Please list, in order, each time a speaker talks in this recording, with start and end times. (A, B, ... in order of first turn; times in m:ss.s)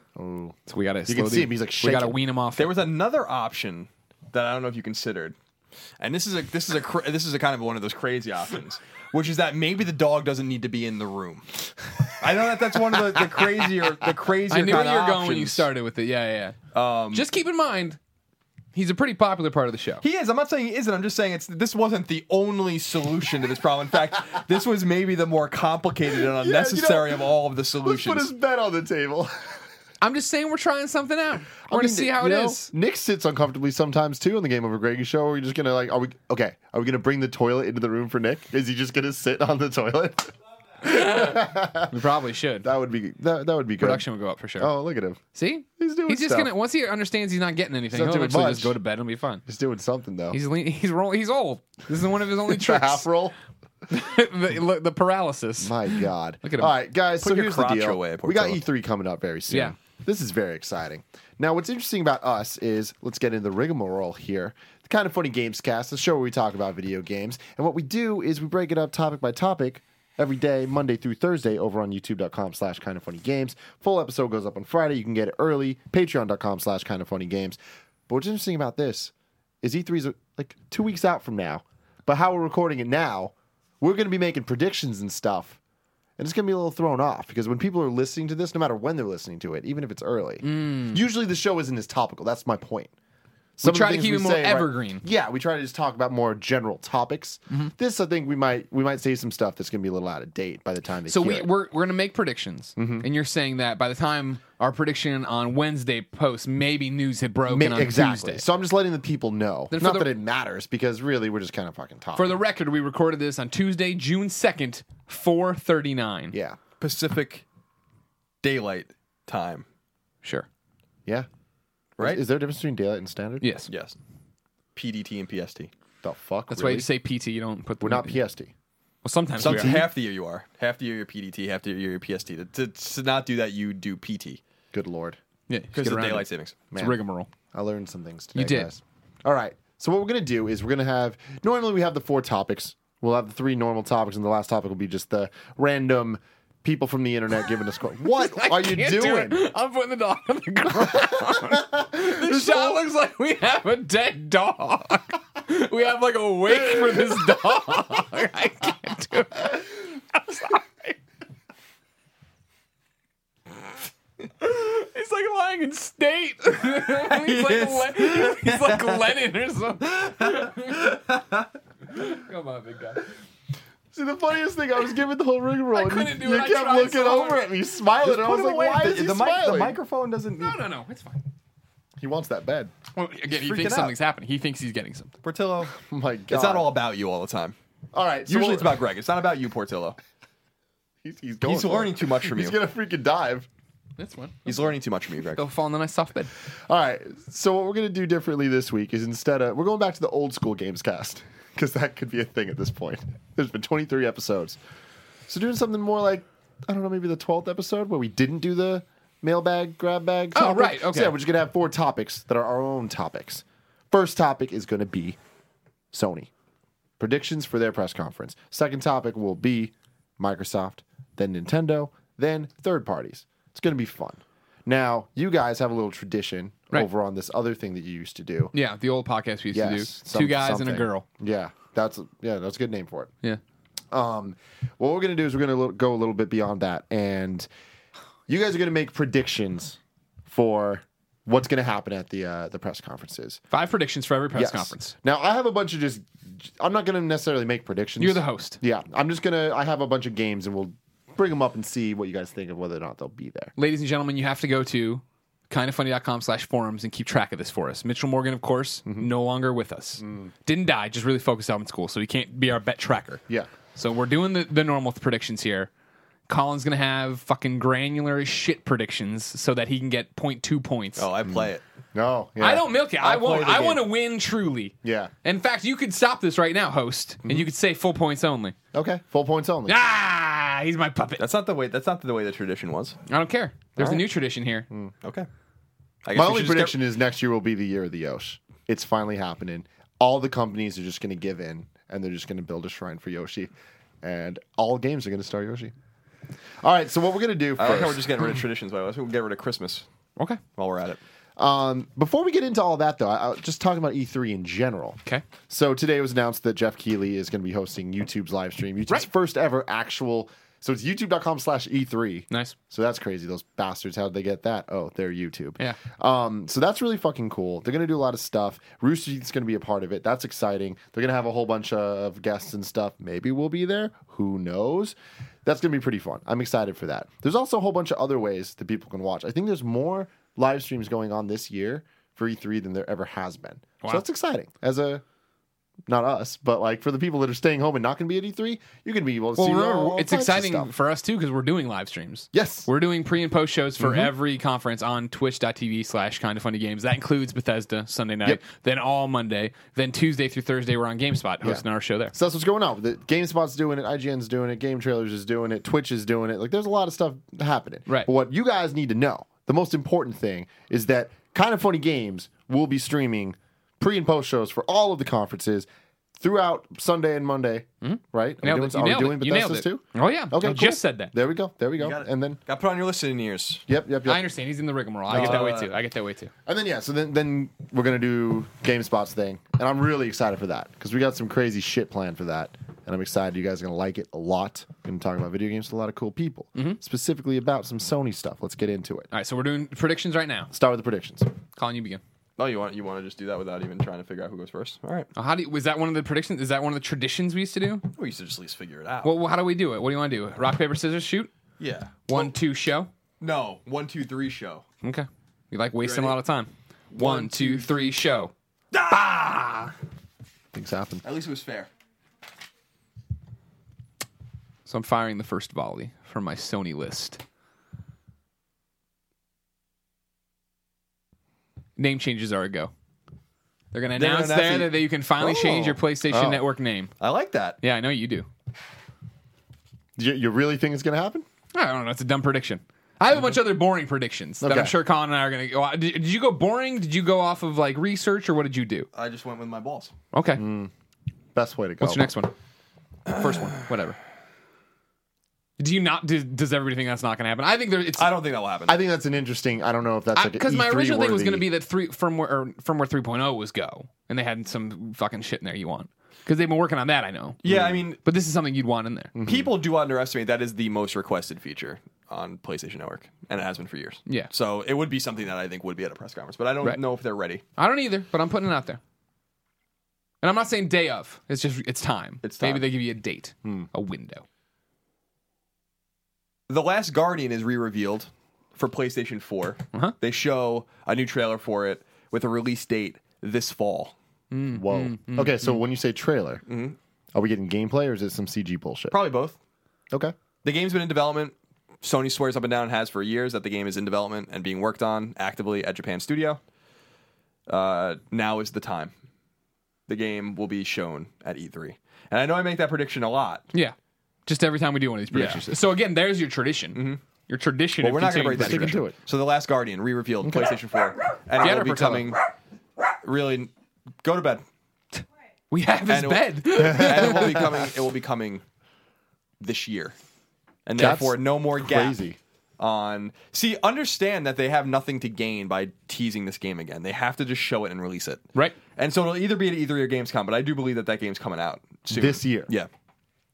0:00.2-0:02.2 A
0:00.7-0:02.9 B
0:02.6-0:05.4 C
0:06.0-0:15.7 C
0:14.5-0:16.6 B
0:16.7-0:17.3 C
0:17.1-0:18.0 B
0:18.7-0:20.0 B
0:20.0-0:28.3 C
0:26.3-0:27.2 A
0:27.8-0:29.6 A
0:30.0-0:32.7 B
0:31.7-0:41.9 A
0:40.8-0:42.7 B
0:42.6-0:44.0 A
0:43.8-0:44.7 B
0:44.6-0:45.2 A
0:45.3-0:49.4 B
0:45.8-0:46.5 A
0:47.9-0:48.8 A
0:49.5-0:50.4 A
0:50.3-0:53.1 B
0:52.5-0:53.4 A
0:53.9-0:56.7 B
0:55.6-1:25.6 A
0:57.2-0:58.6 C
1:26.2-1:32.9 A
1:30.4-1:31.0 B
1:33.6-1:41.5 A
1:33.6-1:35.0 B
1:41.1-1:48.4 B
1:42.8-1:43.1 A
1:47.5-1:52.3 A
1:49.7-1:50.1 B
1:52.2-1:56.4 B
1:56.3-1:56.6 A
1:56.8-1:57.4 C
1:58.4-1:59.6 C
2:00.2-2:00.5 B
2:02.0-2:03.5 A
2:03.4-2:03.7 B
2:03.7-2:04.0 C
2:04.8-2:05.7 C
2:06.0-2:06.9 A
2:06.5-2:08.2 B
2:07.8-2:08.5 A
2:09.0-2:09.8 B
2:09.4-2:14.4 C
2:09.4-2:09.9 A
2:14.7-2:15.2 A
2:15.5-2:17.3 B
2:15.8-2:16.6 C
2:17.5-2:29.5 A
2:18.4-2:18.7 B
2:28.0-2:41.0 B
2:30.7-2:32.8 A
2:44.4-2:51.0 B
2:46.9-2:49.1 C
2:50.2-2:51.5 C
2:51.9-2:53.1 B
2:53.9-2:59.8 A
2:55.7-2:57.4 B
2:58.0-3:00.6 C
3:00.4-3:01.2 B
3:02.0-3:02.7 A
3:03.0-3:05.1 B
3:03.2-3:04.0 C
3:05.2-3:05.7 C
3:05.7-3:06.8 A
3:06.3-3:07.6 C
3:07.9-3:08.8 A
3:08.3-3:10.0 C
3:11.0-3:13.5 A
3:11.4-3:12.6 C
3:14.0-3:14.7 B
3:14.5-3:15.4 C
3:15.4-3:16.3 B
3:16.7-3:24.6 A
3:25.3-3:35.2 A
3:30.3-3:31.2 B
3:35.9-3:36.3 A
3:37.0-3:48.5 A
3:48.5-3:51.0 B
3:49.5-3:53.1 A
3:53.9-3:57.5 A
3:58.3-4:03.4 A
4:03.5-4:04.9 B
4:04.3-4:13.5 A
4:08.0-4:08.6 B
4:13.6-4:23.2 B
4:20.0-4:20.3 A
4:23.8-4:25.7 B
4:26.3-4:31.1 B
4:31.0-4:31.6 C
4:31.9-4:32.7 A
4:32.4-4:38.6 B
4:33.0-4:33.9 C
4:34.8-4:35.1 A
4:38.7-4:39.8 A
4:39.7-4:41.2 B
4:41.2-4:43.0 C
4:43.1-4:44.7 B
4:43.8-4:44.0 A
4:45.0-4:45.3 C
4:46.0-4:46.8 C
4:46.1-4:53.5 A
4:54.0-4:55.7 A
4:56.6-4:58.4 A
4:57.6-4:59.8 C
5:00.6-5:01.0 C
5:01.4-5:35.0 A
5:12.3-5:12.6 B
5:35.9-5:40.7 A
5:39.4-5:52.1 B
5:42.3-5:42.7 A
5:43.8-5:44.1 A
5:51.4-6:05.7 A
6:06.2-6:12.4 A
6:07.8-6:11.1 B
6:11.8-6:13.6 C
6:13.7-6:14.3 A
6:14.0-6:16.3 B
6:15.1-6:15.7 C
6:15.2-6:15.4 A
6:16.5-6:29.1 A
6:29.1-6:30.5 B
6:30.5-6:31.3 A
6:31.6-6:32.0 B
6:32.4-6:35.1 C
6:35.2-6:37.9 B
6:38.0-6:39.1 C
6:39.0-6:41.3 B
6:41.6-6:42.3 C
6:42.1-6:42.9 B
6:43.2-6:44.6 C
6:44.8-6:48.3 B
6:45.8-6:46.2 C
6:46.9-6:48.0 C
6:48.7-6:49.7 C
6:50.5-6:51.0 A
6:51.0-6:51.7 C
6:54.7-6:57.2 B
7:01.8-7:02.7 B
7:03.7-7:06.9 B
7:04.0-7:05.7 C
7:05.4-7:06.4 A
7:07.0-7:07.6 C
7:07.6-7:08.3 B
7:10.0-7:11.3 A
7:11.5-7:18.9 B
7:14.4-7:14.8 A
7:18.9-7:19.9 C
7:20.1-7:20.4 B
7:20.4-7:20.7 A
7:21.4-7:22.1 A
7:21.8-7:22.3 B
7:23.1-7:24.0 B
7:23.1-7:23.6 C
7:25.6-7:28.2 B
7:28.0-7:28.8 C
7:28.7-7:31.5 A
7:30.1-7:37.4 B
7:37.4-7:38.0 C
7:37.5-7:37.8 A
7:38.0-7:39.1 B
7:39.2-7:39.5 A
7:39.2-7:47.4 C
7:47.6-7:48.8 B
7:50.2-7:54.2 B
7:52.2-7:52.6 C
7:56.5-8:03.9 C
8:04.3-8:05.6 B
8:04.5-8:06.4 A
8:06.5-8:06.8 C
8:07.1-8:09.1 A
8:08.9-8:09.4 C
8:10.4-8:16.4 C
8:17.5-8:18.9 C
8:19.9-8:23.5 C
8:24.3-8:28.8 B
8:25.1-8:25.4 C
8:26.7-8:27.0 C
8:27.8-8:32.2 C
8:28.4-8:29.0 A
8:30.2-8:30.6 A
8:31.4-8:32.1 B
8:33.0-8:33.5 C
8:34.0-8:34.4 C
8:35.5-8:37.6 B
8:35.9-8:38.4 C
8:39.4-8:40.0 C
8:40.7-8:42.0 C
8:40.8-8:42.2 A
8:42.6-8:52.7 C
8:51.9-8:52.5 A